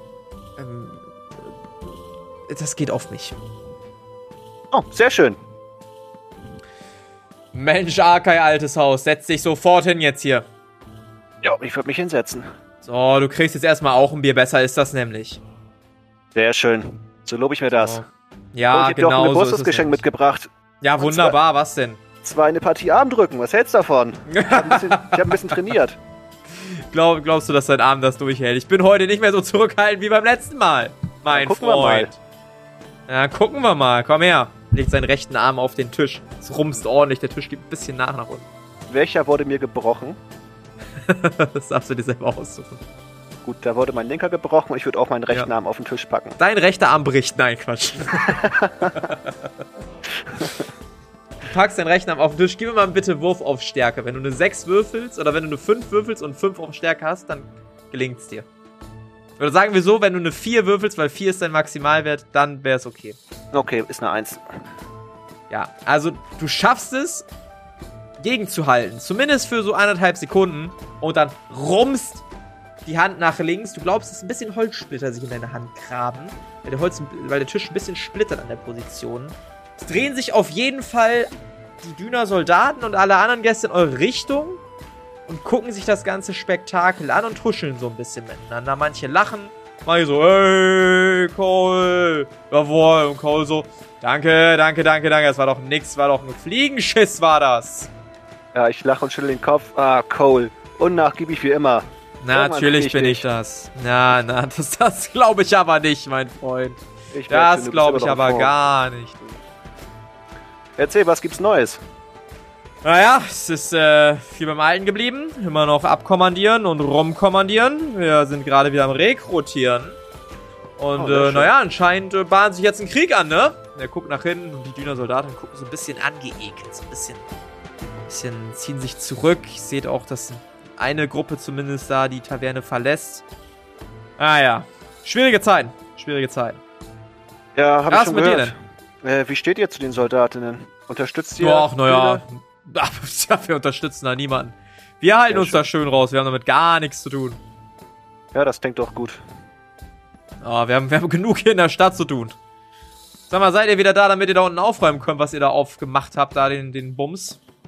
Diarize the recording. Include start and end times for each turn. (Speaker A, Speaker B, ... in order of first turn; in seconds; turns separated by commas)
Speaker A: 0.6-1.5, Speaker A: 2.5-3.4, Speaker B: 4.7-5.4, Speaker A: 7.5-10.4, Speaker B: 11.4-12.5, Speaker A: 12.8-15.4, Speaker B: 16.3-18.0, Speaker A: 17.7-20.0, Speaker B: 18.7-21.4, Speaker A: 20.8-22.0, Speaker B: 22.2-26.0, Speaker A: 24.3-25.5, Speaker A: 26.5-32.2, Speaker B: 31.3-32.1, Speaker A: 33.1-38.5, Speaker B: 38.9-40.2, Speaker A: 41.0-42.8, Speaker B: 43.4-46.4, Speaker A: 46.4-49.4, Speaker B: 48.3-48.9, Speaker B: 50.4-50.6, Speaker A: 51.4-58.5, Speaker A: 59.4-63.2, Speaker B: 63.5-64.6, Speaker A: 65.5-67.2, Speaker A: 68.2-72.2, Speaker A: 72.8-84.6, Speaker A: 85.3-97.9, Speaker B: 98.5-103.3, Speaker A: 102.2-109.2, Speaker B: 107.1-108.5, Speaker B: 110.8-111.8, Speaker A: 112.8-120.0, Speaker A: 120.8-127.2, Speaker B: 121.0-121.5, Speaker A: 128.1-133.2, Speaker A: 134.2-136.6, Speaker B: 137.6-142.2, Speaker A: 137.9-138.5, Speaker A: 141.4-147.4, Speaker B: 145.3-145.6, Speaker B: 148.3-149.2, Speaker A: 150.4-152.4, Speaker A: 153.3-157.4